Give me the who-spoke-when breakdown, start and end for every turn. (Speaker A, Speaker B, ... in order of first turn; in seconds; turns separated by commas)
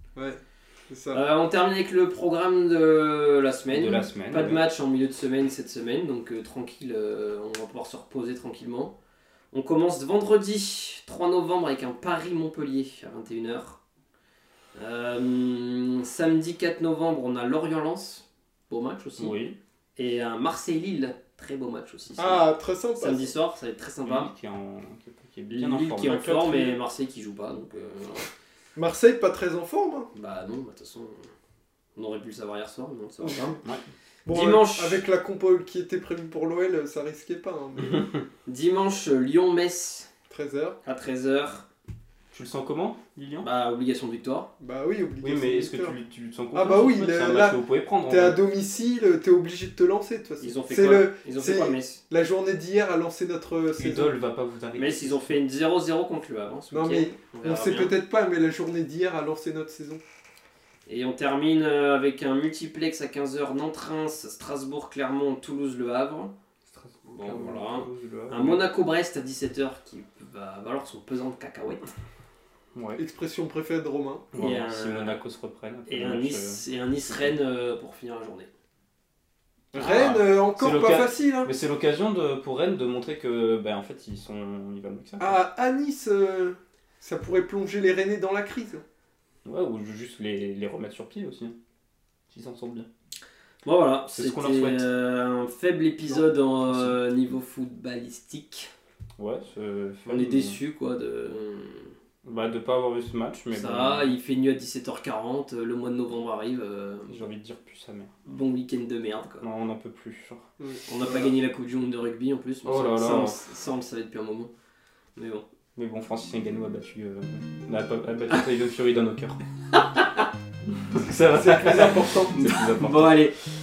Speaker A: 0.1-1.2, Speaker B: 1.1-8.9, Speaker C: 3.7-4.6, Speaker B: 9.5-13.8, Speaker B: 14.8-19.4, Speaker C: 19.2-19.6, Speaker B: 20.0-24.3, Speaker A: 22.2-23.4, Speaker C: 24.1-26.8, Speaker B: 25.5-28.3, Speaker A: 28.8-30.1, Speaker B: 30.1-31.3, Speaker B: 32.0-33.6, Speaker A: 33.2-33.5, Speaker A: 34.2-38.1, Speaker B: 34.3-35.0, Speaker B: 38.5-40.1, Speaker A: 40.3-40.8, Speaker B: 40.9-41.7, Speaker C: 42.3-43.5, Speaker B: 43.4-44.5, Speaker A: 44.6-46.0, Speaker C: 45.2-48.4, Speaker A: 46.5-54.2, Speaker B: 50.4-52.0, Speaker C: 53.8-55.4, Speaker B: 54.8-58.0, Speaker A: 56.7-60.0, Speaker B: 60.9-66.3, Speaker C: 66.7-68.6, Speaker B: 67.1-71.9, Speaker C: 72.8-73.0, Speaker A: 73.0-74.3, Speaker C: 74.3-76.6, Speaker B: 74.4-75.2, Speaker B: 75.9-78.5, Speaker C: 79.7-85.4, Speaker A: 79.7-81.5, Speaker A: 85.2-88.8, Speaker C: 89.5-91.5, Speaker C: 92.3-92.9, Speaker B: 93.6-98.7, Speaker C: 94.2-94.9, Speaker C: 96.7-97.0, Speaker C: 99.2-100.6, Speaker B: 100.1-101.9, Speaker C: 102.2-104.2, Speaker B: 103.5-107.2, Speaker C: 107.1-108.1, Speaker B: 108.3-109.5, Speaker C: 109.4-110.5, Speaker A: 110.6-111.3, Speaker B: 110.9-114.5, Speaker C: 112.7-113.4, Speaker B: 115.2-115.4, Speaker C: 115.8-119.4, Speaker C: 120.7-123.2, Speaker A: 121.3-122.4, Speaker B: 122.3-123.3